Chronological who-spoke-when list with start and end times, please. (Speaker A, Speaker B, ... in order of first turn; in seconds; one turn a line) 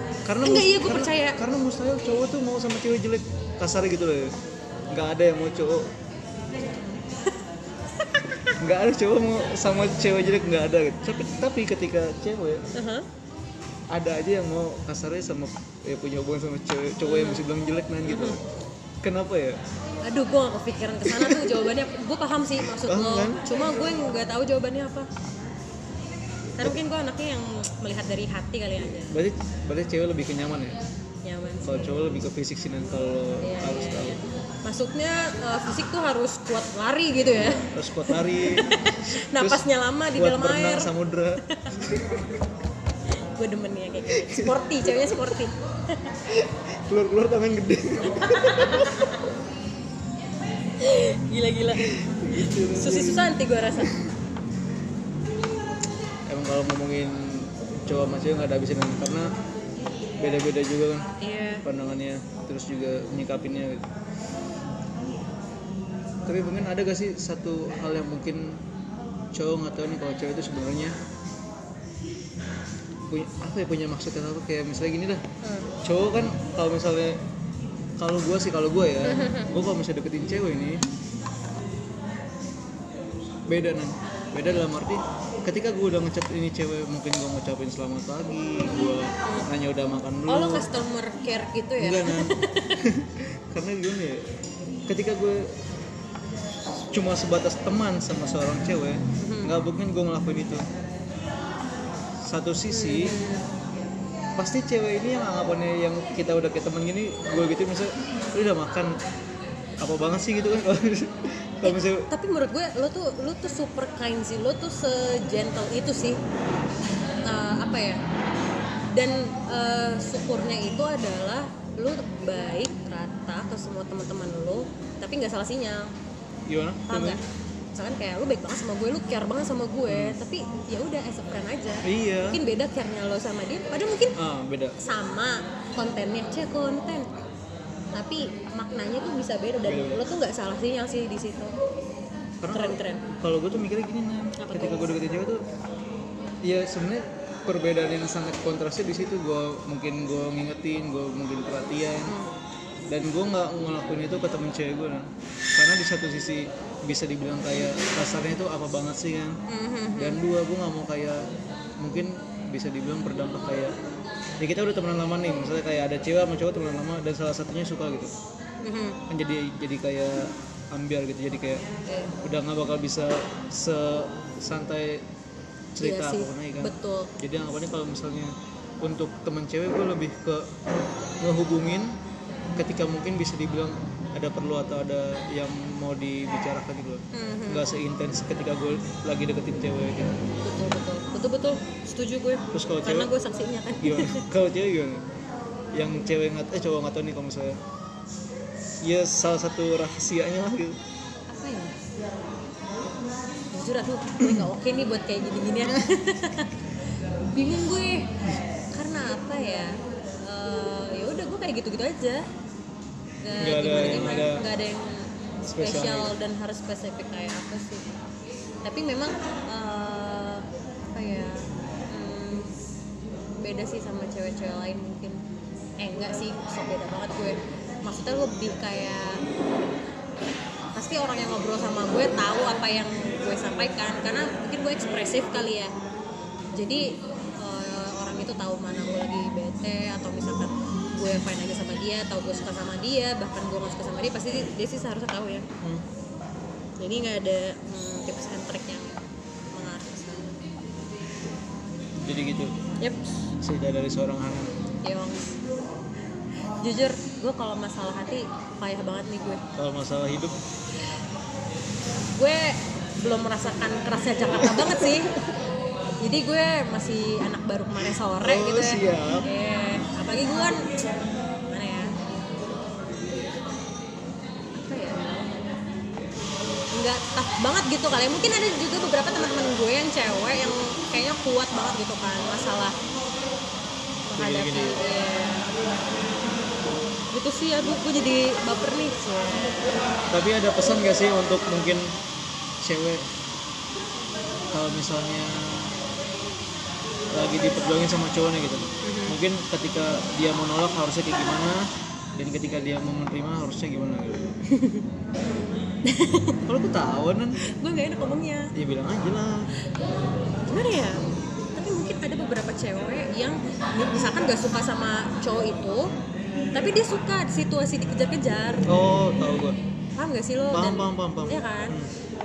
Speaker A: 0.2-4.3
Speaker B: 0.4-1.4
Speaker A: 4.9-5.9
Speaker B: 6.6-7.4
Speaker B: 8.0-8.5
Speaker A: 8.5-12.7
Speaker B: 12.7-13.1
Speaker A: 13.9-18.4
Speaker B: 17.1-17.4
Speaker B: 18.1-18.4
Speaker A: 19.0-19.6
Speaker B: 20.1-25.1
Speaker A: 21.1-21.7
Speaker A: 22.8-23.4
Speaker B: 26.6-29.2
Speaker A: 29.1-30.8
Speaker B: 31.2-31.9
Speaker A: 31.6-34.2
Speaker B: 33.4-40.9
Speaker A: 37.7-42.2
Speaker B: 43.4-46.1
Speaker A: 44.2-45.1
Speaker A: 46.4-49.1
Speaker B: 48.1-49.2
Speaker B: 50.8-54.0
Speaker A: 51.8-53.3
Speaker A: 56.3-59.3
Speaker A: 60.2-61.1
Speaker B: 61.2-61.6
Speaker A: 61.6-63.9
Speaker A: 66.3-68.6
Speaker A: 69.3-71.0
Speaker A: 73.1-75.2
Speaker B: 75.4-75.7
Speaker A: 75.8-77.2
Speaker A: 78.0-80.8
Speaker B: 79.0-79.5
Speaker A: 83.5-90.7
Speaker B: 90.3-92.7
Speaker A: 91.8-94.3
Speaker A: 94.9-95.5
Speaker A: 96.9-100.7
Speaker B: 99.2-99.5
Speaker A: 102.2-103.2
Speaker B: 102.7-103.5
Speaker A: 104.4-109.0
Speaker A: 109.8-112.1
Speaker B: 111.6-116.2
Speaker B: 117.2-118.0
Speaker B: 118.9-125.9
Speaker A: 126.5-127.2
Speaker B: 126.9-127.2
Speaker B: 127.8-134.2
Speaker A: 129.9-130.2
Speaker A: 131.8-132.4
Speaker A: 134.2-134.8
Speaker B: 134.8-137.1
Speaker B: 137.9-141.6
Speaker A: 139.7-140.0
Speaker A: 142.4-145.4
Speaker B: 142.5-143.1
Speaker B: 144.4-144.9
Speaker A: 146.4-152.2
Speaker B: 152.1-152.3
Speaker A: 152.9-159.4
Speaker B: 159.5-160.2
Speaker A: 160.0-161.3
Speaker A: 161.8-163.7
Speaker A: 164.4-168.1
Speaker B: 168.6-169.0
Speaker A: 169.1-171.7
Speaker B: 171.9-172.2
Speaker A: 172.2-175.1
Speaker A: 175.8-180.5
Speaker B: 175.8-177.1
Speaker A: 181.2-182.0
Speaker A: 182.6-190.2
Speaker B: 187.1-187.7
Speaker B: 190.4-194.3
Speaker A: 192.5-193.1
Speaker A: 193.8-195.1
Speaker A: 195.8-197.6
Speaker A: 198.8-200.8
Speaker B: 201.3-201.8
Speaker B: 203.5-206.7
Speaker B: 207.3-208.1
Speaker B: 208.7-212.2
Speaker B: 213.2-217.8
Speaker A: 213.4-214.4
Speaker A: 215.5-216.1
Speaker B: 218.6-222.5
Speaker B: 223.3-225.2
Speaker B: 225.8-229.2
Speaker B: 230.8-235.7
Speaker B: 236.5-245.5
Speaker B: 246.8-250.3
Speaker A: 252.0-252.6
Speaker B: 252.8-253.1
Speaker A: 253.4-254.5
Speaker B: 254.8-255.4
Speaker B: 256.6-259.4
Speaker A: 259.6-260.4
Speaker B: 262.2-265.1
Speaker A: 264.4-265.2
Speaker B: 266.0-270.9
Speaker A: 268.2-269.3
Speaker B: 271.4-271.9
Speaker B: 274.6-275.2
Speaker B: 276.7-282.8
Speaker B: 284.1-285.5
Speaker A: 284.1-284.8
Speaker B: 287.1-289.7
Speaker A: 290.1-291.9
Speaker A: 292.6-293.1
Speaker A: 294.5-295.7
Speaker A: 297.1-304.3
Speaker B: 298.8-299.2
Speaker B: 304.5-304.9
Speaker B: 305.9-306.4
Speaker A: 306.5-307.4
Speaker B: 307.5-308.5
Speaker A: 308.6-309.5
Speaker B: 310.4-315.9
Speaker B: 316.5-318.7
Speaker A: 318.6-319.6
Speaker B: 320.0-321.8
Speaker A: 320.5-321.9